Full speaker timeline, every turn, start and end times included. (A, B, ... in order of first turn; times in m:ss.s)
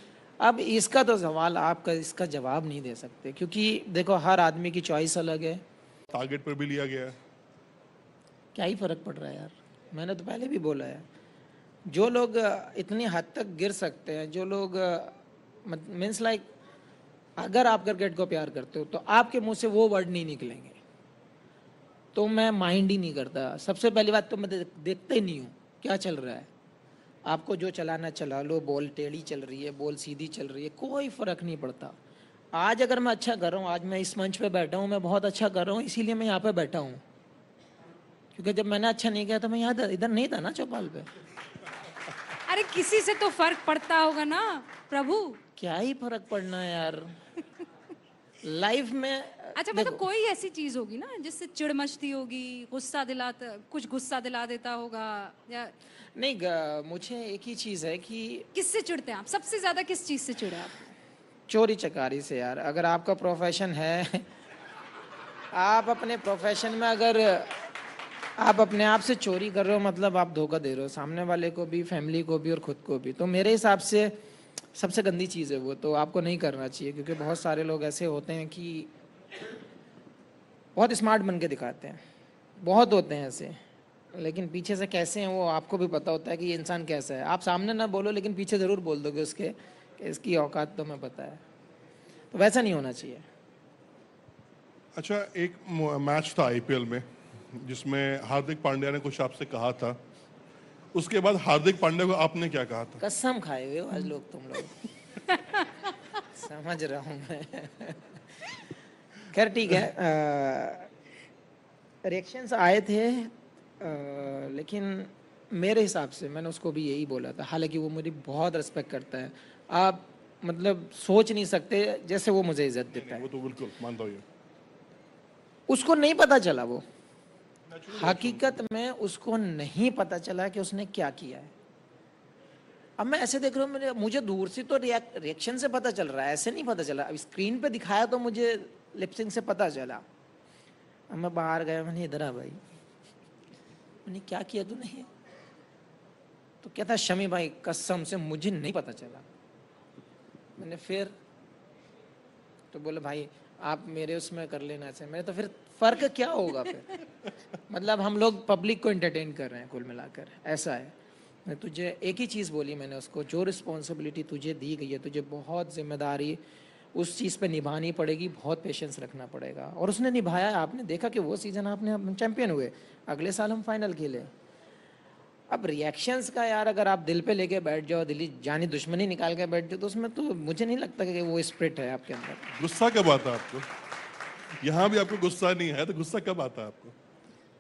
0:00.4-0:05.6 A
0:06.1-0:07.2 B
0:08.6-0:11.0 A
0:11.9-0:16.4 A
0:17.4-0:20.8 A
0:22.1-0:26.5 A
0:27.3-0:32.0 A
0:32.5-0:37.0 A
0:38.3-0:41.1 A
0:42.5-0:45.4 C
0:45.6-0:47.2 A
0:48.4-0:50.0 A
0:49.6-0:55.7 C
0:56.2-0:58.5 A
0:58.5-1:00.9 C
1:01.5-1:04.3 A
1:05.5-1:07.6 A
1:08.4-1:14.2 A
1:14.7-1:18.9 A
1:20.8-1:22.0 A
1:22.6-1:23.6 A
1:24.1-1:31.4 A
1:32.3-1:33.3 A
1:35.0-1:40.0 B
1:40.9-1:43.0 B
1:43.0-1:44.8 A
1:46.1-1:48.6 A
1:49.3-1:50.9 A
1:52.0-2:03.3 A
2:02.9-2:04.2 B
2:05.7-2:06.8 A
2:07.7-2:08.5 B
2:07.9-2:11.5 A
2:13.0-2:20.0 A
2:21.1-2:22.6 A
2:24.0-2:25.1 A
2:26.6-2:29.2 A
2:30.6-2:31.1 A
2:32.7-2:37.0 A
2:37.7-2:40.9 A
2:41.4-2:46.4 A
2:47.0-2:54.3 A
2:55.5-3:02.5 A
3:02.6-3:03.7 B
3:04.6-3:06.9 B